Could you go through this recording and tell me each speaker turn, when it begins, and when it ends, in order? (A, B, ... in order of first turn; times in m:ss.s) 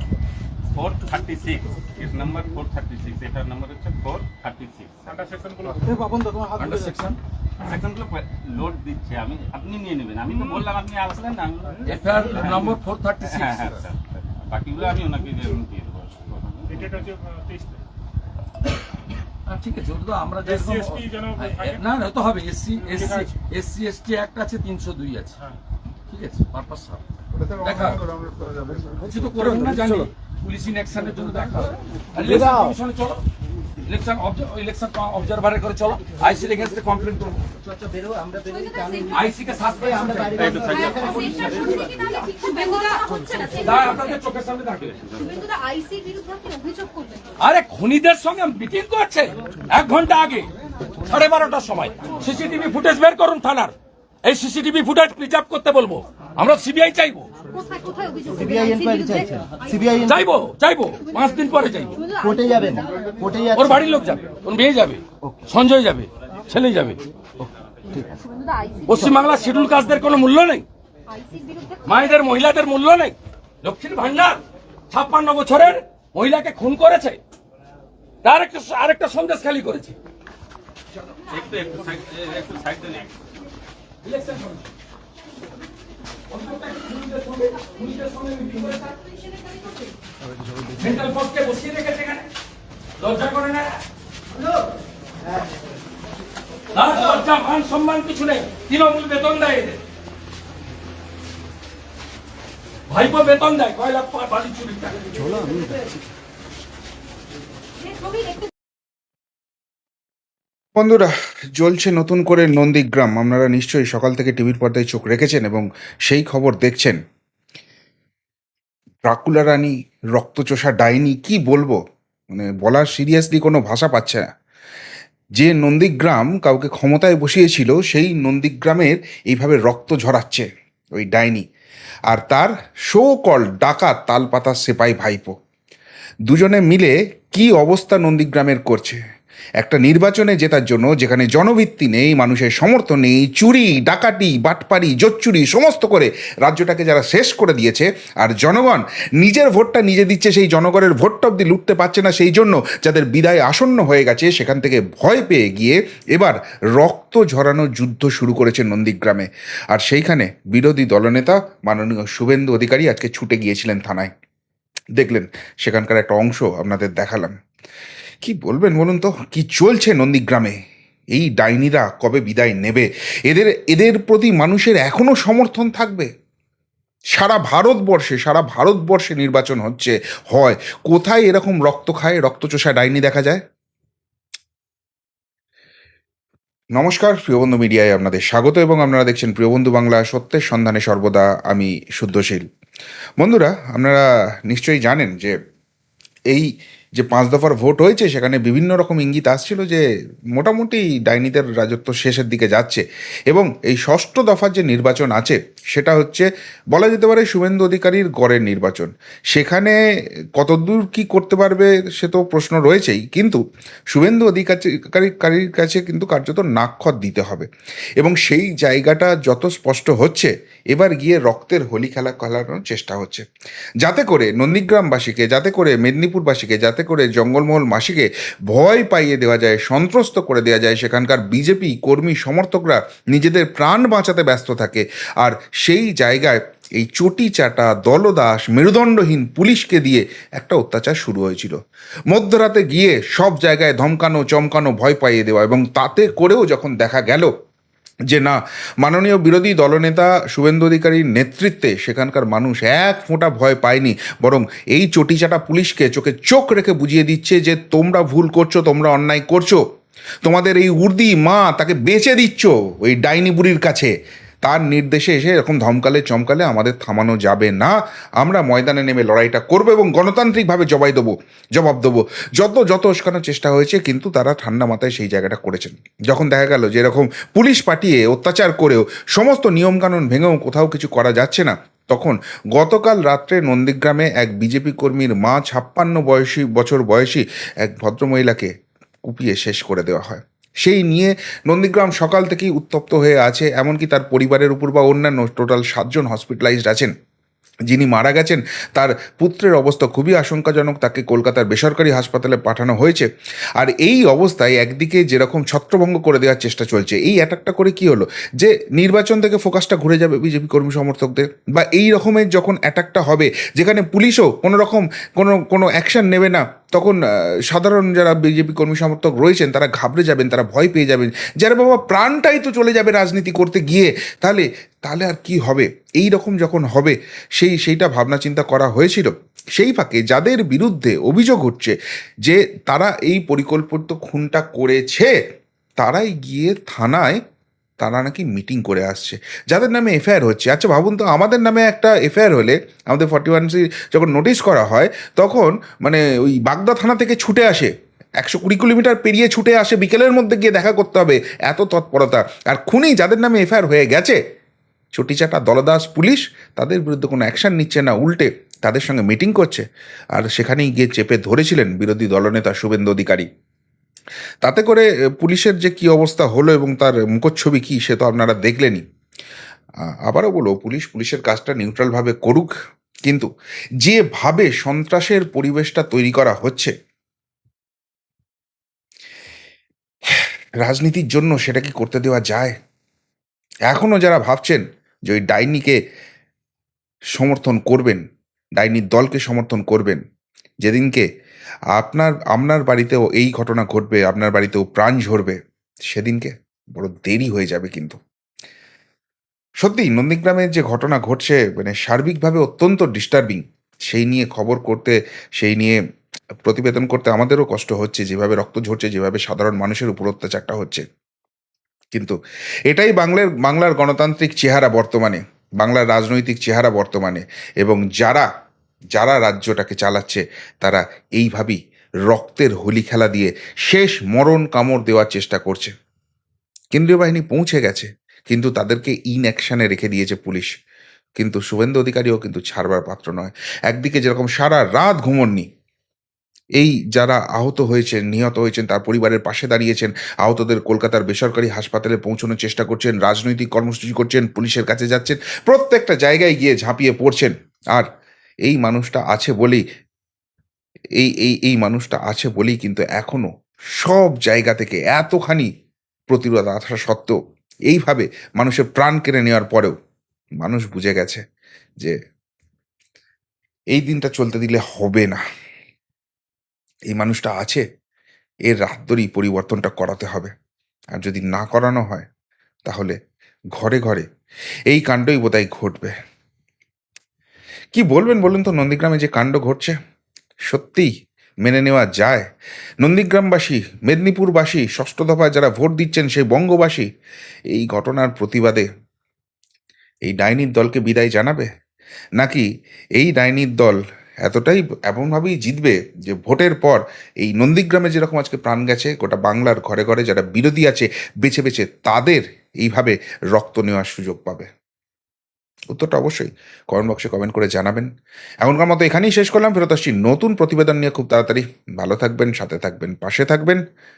0:00.7-0:06.2 A
0:06.6-0:07.2 B
0:07.6-0:17.1 A
0:11.9-0:13.7 B
0:19.5-0:25.4 B
0:26.1-0:28.1 B
0:29.0-0:33.2 B
0:33.8-0:37.4 B
0:37.7-0:39.1 C
0:38.5-0:39.1 D
0:39.1-0:41.4 B
0:40.0-0:42.0 C
0:40.4-0:41.7 A
0:40.6-0:44.2 D
0:43.5-0:45.2 B
0:45.2-0:47.4 D
0:47.4-0:50.5 B
0:51.0-0:57.3 B
0:57.5-0:59.9 D
0:58.4-1:00.1 C
1:00.0-1:02.1 B
1:02.0-1:02.7 D
1:02.2-1:03.7 C
1:03.5-1:07.0 B
1:08.2-1:09.0 D
1:08.9-1:10.7 B
1:11.1-1:12.2 D
1:11.8-1:17.2 B
1:18.2-1:20.0 B
1:21.3-1:23.2 A
1:24.0-1:24.7 B
1:26.3-1:29.1 B
1:29.0-1:29.9 D
1:30.8-1:32.3 B
1:33.0-1:33.8 B
1:36.7-1:39.8 B
1:42.9-1:45.1 B
1:47.9-1:48.5 D
1:50.8-1:57.0 E
1:59.0-2:01.8 E
2:02.3-2:04.3 E
2:05.4-2:10.5 E
2:11.0-2:11.5 E
2:12.1-2:15.3 E
2:16.3-2:19.0 E
2:19.6-2:44.1 E
2:45.0-2:47.4 E
2:48.2-2:50.6 E
2:51.1-2:56.1 E
2:57.1-3:03.4 E
3:06.8-3:12.5 E
3:13.2-3:15.4 E
3:16.3-3:19.8 E
3:20.4-3:29.8 E
3:30.4-3:33.4 E
3:33.9-3:43.2 E
3:43.8-4:01.6 E
4:02.1-4:07.3 E
4:08.1-4:19.6 E
4:20.2-4:48.5 E
4:49.1-4:56.9 E
4:57.7-5:35.1 E
5:35.8-5:37.2 E
5:37.8-5:54.2 E
5:54.9-5:59.6 E
6:00.2-6:03.3 E
6:04.4-6:08.8 E
6:09.9-6:12.5 E
6:13.8-6:16.7 E
6:20.1-6:22.6 E
6:23.7-6:25.8 E
6:27.2-6:28.0 E
6:28.6-6:30.0 E
6:30.6-6:31.0 E
6:31.7-6:35.4 E
6:35.9-6:38.0 E
6:39.6-6:45.8 E
6:46.4-6:50.8 E
6:52.7-6:58.3 E
6:58.9-7:01.6 E
7:02.1-7:05.7 E
7:06.7-7:10.5 E
7:11.2-7:15.5 E
7:16.6-7:27.9 E
7:28.5-7:29.6 E
7:31.0-7:35.5 E
7:36.1-7:37.2 E
7:37.7-7:39.7 E
7:40.4-7:41.2 E
7:43.7-7:45.2 E
7:46.9-7:47.6 E
7:48.5-7:50.3 E
7:51.0-7:52.1 E
7:52.7-7:53.0 E
7:53.6-7:54.1 E
7:54.7-7:55.9 E
7:57.7-7:59.8 E
8:00.5-8:00.9 E
8:01.4-8:02.3 E
8:02.8-8:06.9 E
8:07.5-8:08.7 E
8:10.1-8:11.5 E
8:12.2-8:24.5 E
8:25.7-8:27.9 E
8:28.4-8:33.6 E